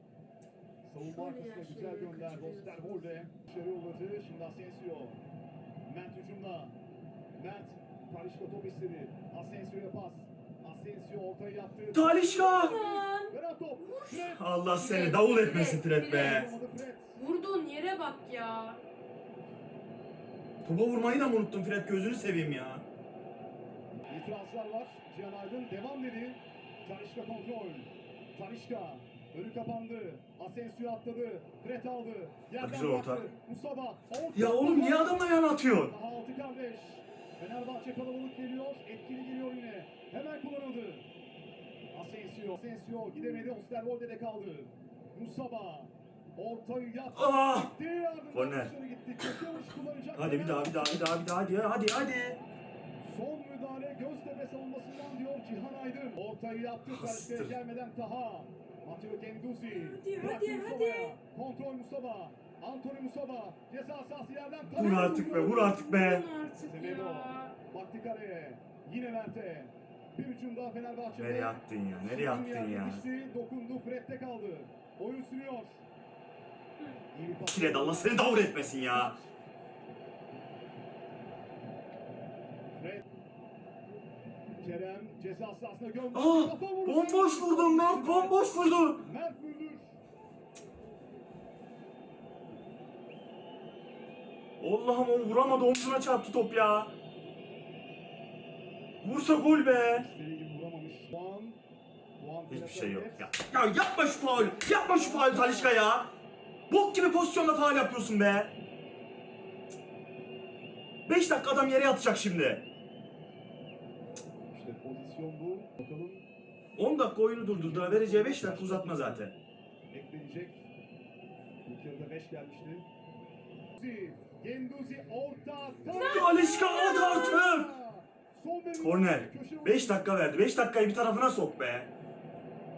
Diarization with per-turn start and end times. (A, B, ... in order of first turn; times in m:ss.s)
0:00.8-0:05.2 A
0:01.0-0:03.1 B
0:05.8-0:06.8 A
0:07.3-0:14.4 A
0:11.9-0:12.8 C
0:12.2-0:14.2 B
0:14.2-0:16.5 C
0:14.7-0:16.5 B
0:16.0-0:17.2 A
0:17.1-0:18.8 B
0:20.6-0:22.8 C
0:24.1-0:41.1 A
0:32.6-0:33.3 C
0:34.3-0:35.9 C
0:41.9-0:51.0 A
0:47.1-0:47.7 C
0:48.3-0:48.7 C
0:50.1-0:52.4 C
0:53.0-1:05.7 A
0:56.9-0:57.5 C
0:59.6-1:01.2 B
1:04.8-1:06.2 C
1:04.8-1:07.6 B
1:06.6-1:15.8 A
1:11.2-1:13.0 C
1:17.1-1:19.2 A
1:17.5-1:19.1 C
1:22.7-1:23.0 A
1:24.6-1:30.0 A
1:26.1-1:29.0 C
1:34.6-1:36.9 C
1:39.0-1:40.1 C
1:39.9-1:41.6 A
1:42.2-1:43.3 A
1:42.5-1:46.1 C
1:44.2-1:45.8 A
1:46.7-1:48.5 C
1:51.1-1:52.6 C
1:54.5-1:56.3 A
1:56.8-1:59.3 C
1:57.5-1:59.3 A
1:59.9-2:00.6 A
2:01.6-2:02.9 A
2:03.8-2:10.2 A
2:05.9-2:07.1 B
2:05.9-2:07.7 C
2:08.8-2:11.9 C